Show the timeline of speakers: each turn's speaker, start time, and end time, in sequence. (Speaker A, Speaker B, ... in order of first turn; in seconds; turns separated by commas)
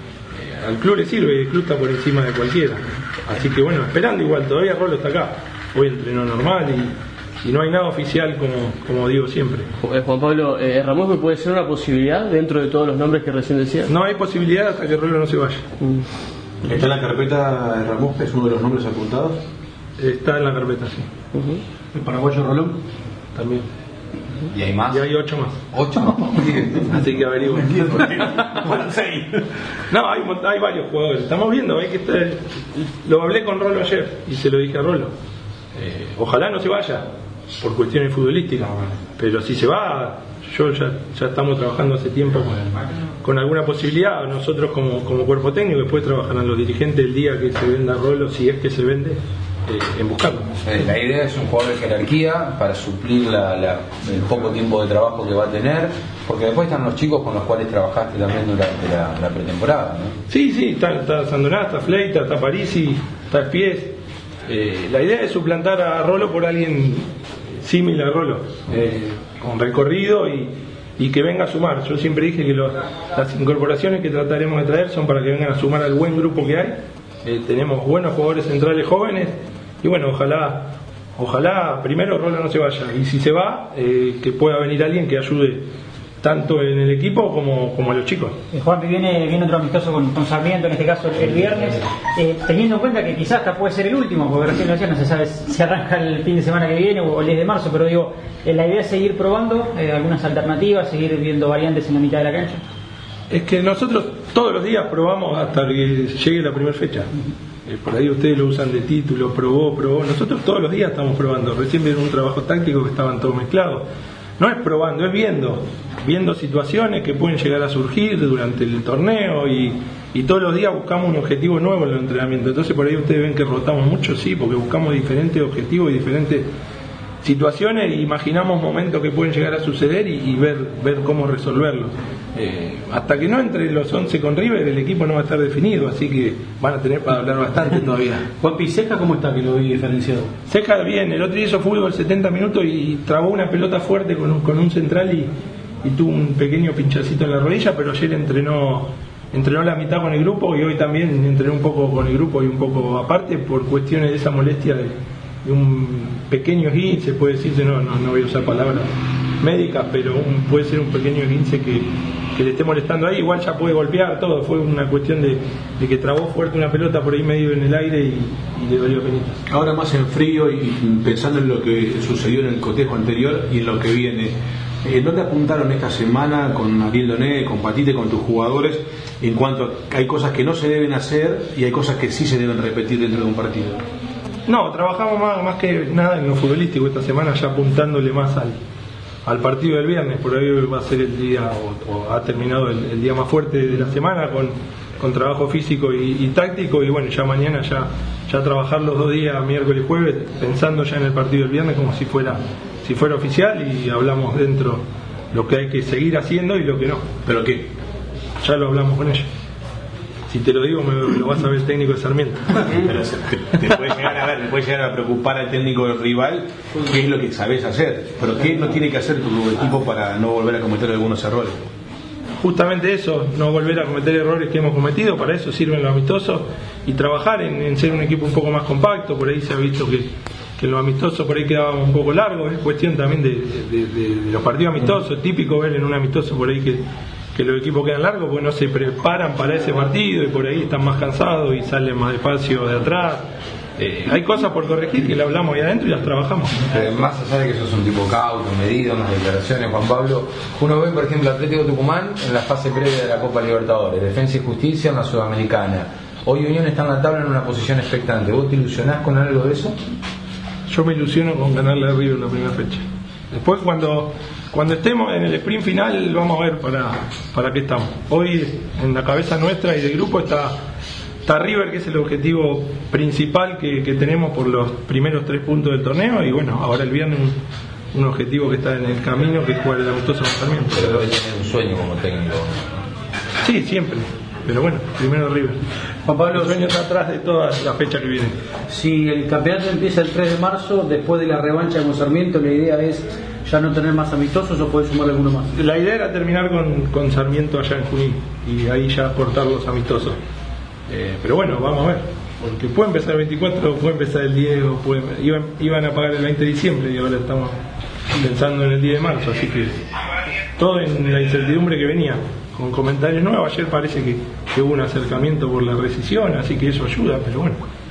Speaker A: 0.3-9.7, Speaker B: 9.8-13.9, Speaker A: 13.8-15.7, Speaker C: 16.6-19.4, Speaker A: 20.0-21.1, Speaker B: 21.3-21.6, Speaker D: 21.9-22.8, Speaker A: 23.4-23.7, Speaker E: 24.5-25.0, Speaker A: 24.9-25.6, Speaker E: 25.7-26.9, Speaker A: 26.9-27.8, Speaker C: 27.7-29.4, Speaker A: 29.9-35.1, Speaker A: 35.8-37.0, Speaker A: 37.6-50.6, Speaker E: 50.6-60.1, Speaker A: 60.3-67.1, Speaker A: 67.6-85.6, Speaker A: 86.2-88.4, Speaker F: 88.5-102.6, Speaker A: 103.3-107.1, Speaker A: 107.7-113.8, Speaker A: 114.4-126.5, Speaker A: 127.2-138.2, Speaker D: 138.2-140.3, Speaker A: 140.5-145.3, Speaker A: 145.8-158.9, Speaker A: 159.4-169.4, Speaker C: 169.5-183.8, Speaker A: 184.5-188.6, Speaker A: 189.2-207.1, Speaker C: 207.2-207.7, Speaker A: 208.4-209.3, Speaker A: 210.3-212.6, Speaker C: 212.7-221.6, Speaker A: 222.4-236.8, Speaker A: 237.3-243.2, Speaker A: 243.8-246.6, Speaker E: 246.6-259.8, Speaker A: 260.7-270.5, Speaker A: 271.2-277.4, Speaker A: 277.9-281.1, Speaker E: 280.8-282.8, Speaker A: 283.4-285.6, Speaker D: 286.1-286.6, Speaker A: 286.4-288.4, Speaker D: 288.7-295.5, Speaker A: 295.5-300.2, Speaker A: 300.9-307.6, Speaker A: 308.2-309.8, Speaker A: 310.6-317.7